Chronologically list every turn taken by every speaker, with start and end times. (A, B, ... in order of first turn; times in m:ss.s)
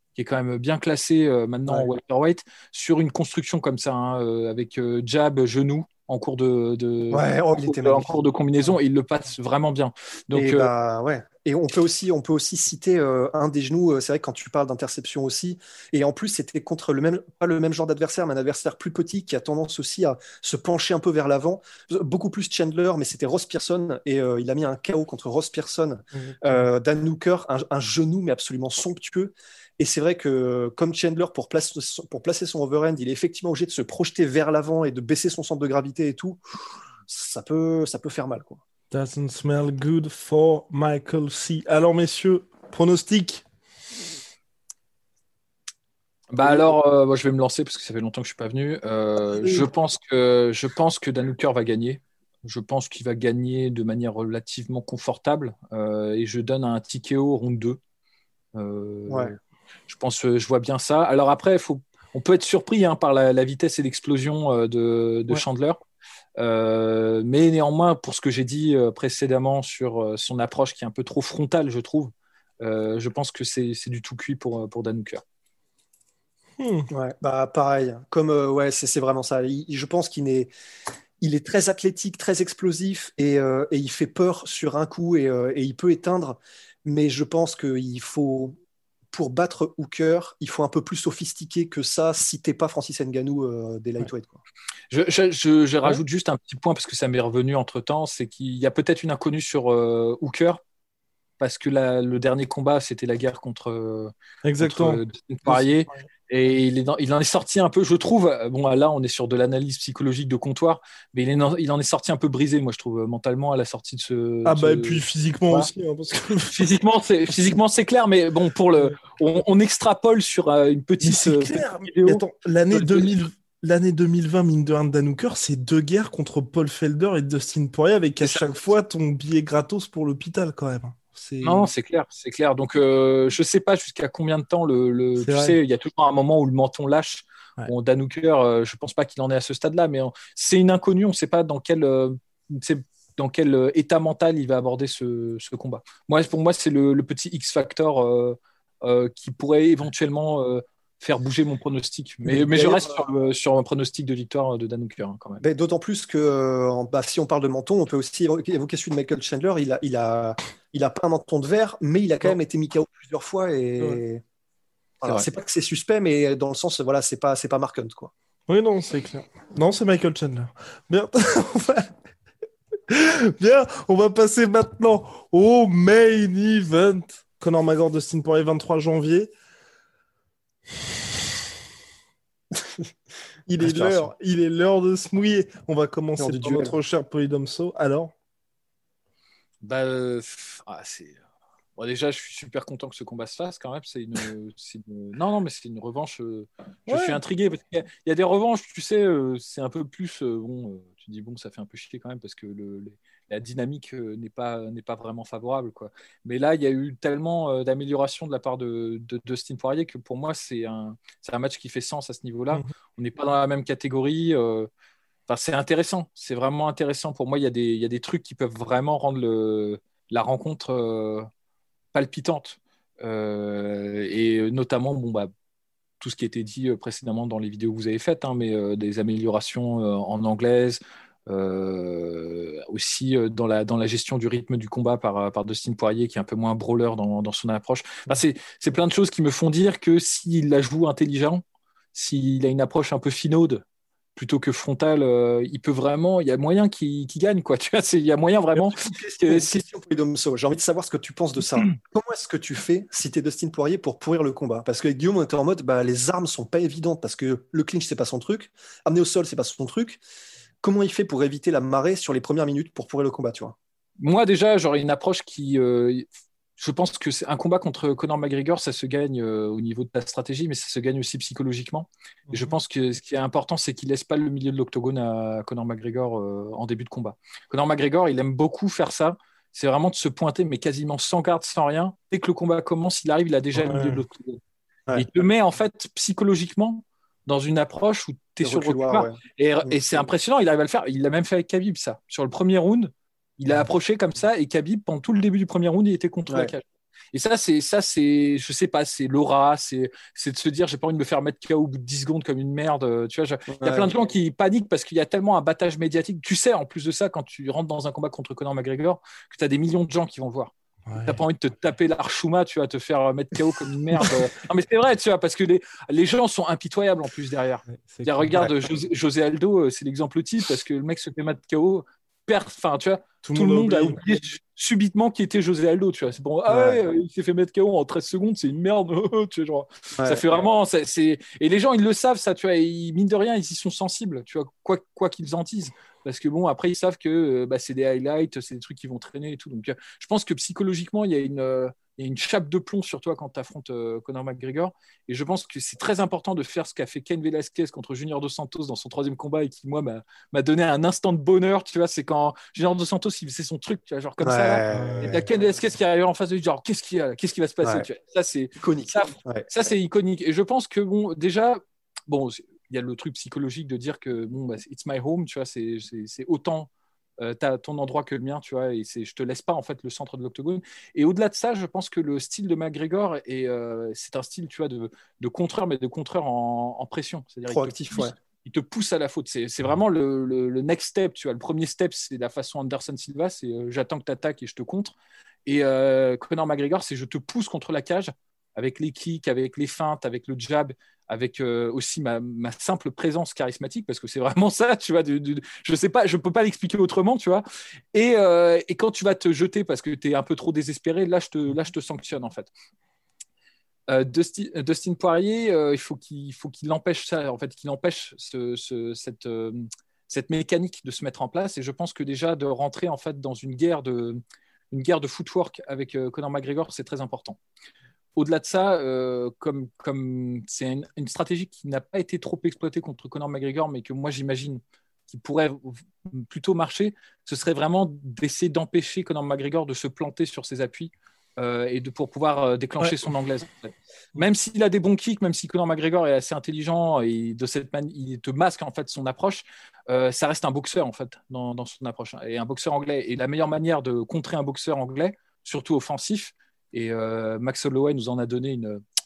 0:00.1-0:10.7 A
0:07.1-0:08.2 B
0:10.3-0:36.4 B
0:26.1-0:26.6 C
0:37.1-0:38.6 B
0:38.9-0:43.4 C
0:46.3-0:57.8 A
0:46.4-0:46.7 B
0:49.3-0:49.7 C
0:58.5-1:05.8 A
1:06.4-1:15.2 A
1:16.6-1:16.9 C
1:16.9-1:20.5 B
1:21.2-1:28.6 B
1:29.1-1:34.4 B
1:34.9-1:40.6 A
1:41.4-1:55.7 A
1:44.4-1:46.1 C
1:54.4-1:56.5 C
1:56.5-2:03.1 A
2:01.0-2:11.7 C
2:08.2-2:08.7 A
2:11.4-2:35.4 A
2:15.2-2:15.6 C
2:32.2-2:33.0 B
2:35.4-2:44.2 B
2:45.0-2:48.1 B
2:48.5-2:52.0 C
2:52.9-2:59.3 C
3:03.5-3:08.1 C
3:03.6-3:04.1 B
3:06.2-3:06.7 B
3:09.6-3:11.2 A
3:11.8-3:34.7 A
3:16.9-3:17.2 C
3:35.3-3:41.3 A
3:41.9-3:45.3 A
3:46.0-4:01.4 A
4:01.9-4:03.6 A
4:04.2-4:09.6 A
4:08.8-4:20.0 B
4:20.6-4:23.6 B
4:24.0-4:26.1 A
4:26.6-4:44.4 A
4:32.3-4:32.5 C
4:43.5-4:44.0 C
4:44.9-5:10.5 A
4:48.4-4:50.1 B
5:03.5-5:03.9 B
5:10.8-5:11.2 C
5:11.0-6:24.9 A
5:17.7-5:18.4 C
5:23.2-5:24.0 C
5:26.5-5:26.8 B
5:30.0-5:30.4 B
5:54.2-5:55.2 B
5:54.7-5:55.2 C
5:58.6-5:59.5 B
6:17.5-6:18.1 B
6:25.4-6:42.5 A
6:43.9-6:54.2 A
6:54.7-6:57.4 A
6:58.2-7:28.8 A